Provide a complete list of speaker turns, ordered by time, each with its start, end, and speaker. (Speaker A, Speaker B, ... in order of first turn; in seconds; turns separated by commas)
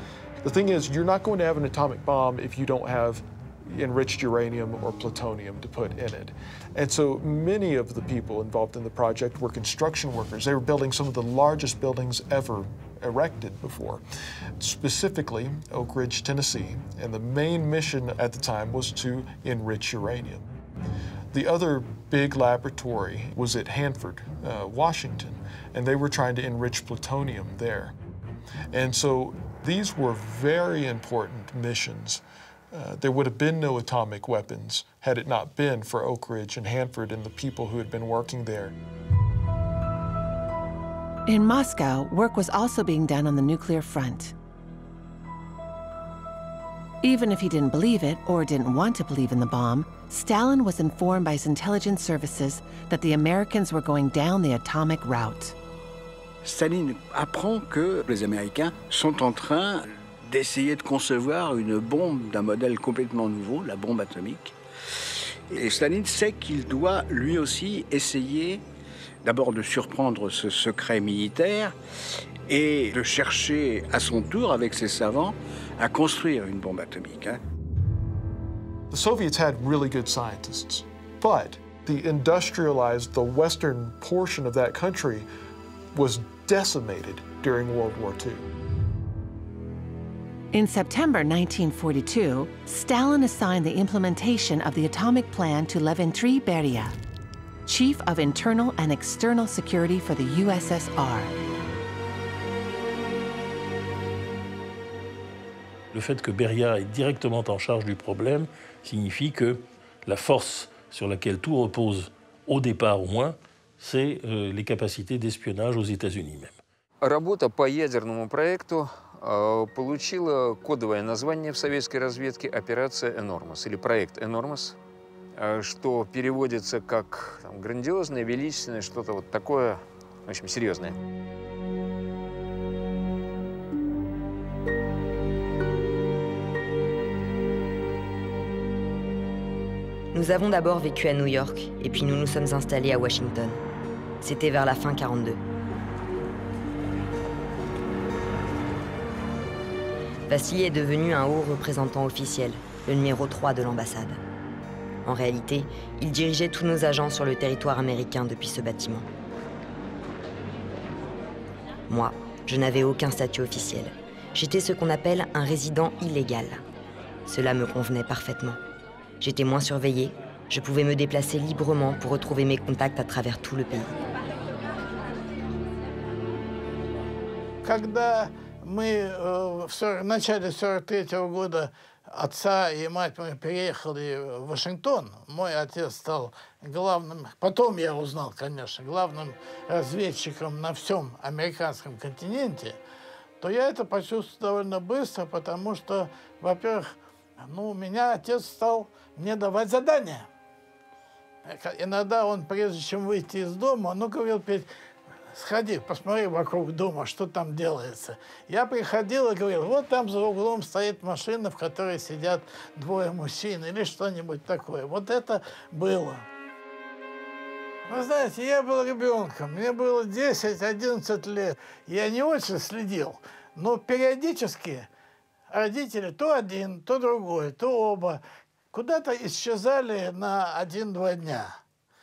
Speaker A: 0.4-14.0, Speaker A: 14.6-20.5, Speaker A: 21.3-28.0, Speaker A: 28.7-38.8, Speaker B: 41.3-44.4, Speaker B: 47.0-55.5, Speaker C: 56.4-64.5, Speaker C: 65.5-68.6, Speaker C: 69.2-71.8, Speaker C: 72.5-77.4, Speaker A: 78.9-85.3, Speaker A: 85.9-88.5, Speaker B: 90.5-97.0, Speaker B: 97.7-101.3, Speaker D: 105.9-116.6, Speaker E: 117.0-124.8, Speaker E: 125.4-131.0, Speaker F: 140.1-143.6, Speaker F: 144.2-145.4, Speaker F: 150.3-154.2, Speaker F: 155.1-159.1, Speaker F: 161.9-166.6, Speaker F: 167.3-168.6, Speaker F: 169.2-174.0, Speaker G: 177.6-192.8, Speaker G: 193.4-200.3, Speaker G: 201.5-204.7, Speaker G: 205.3-216.2, Speaker G: 217.9-224.9, Speaker G: 225.5-228.2, Speaker G: 228.7-231.6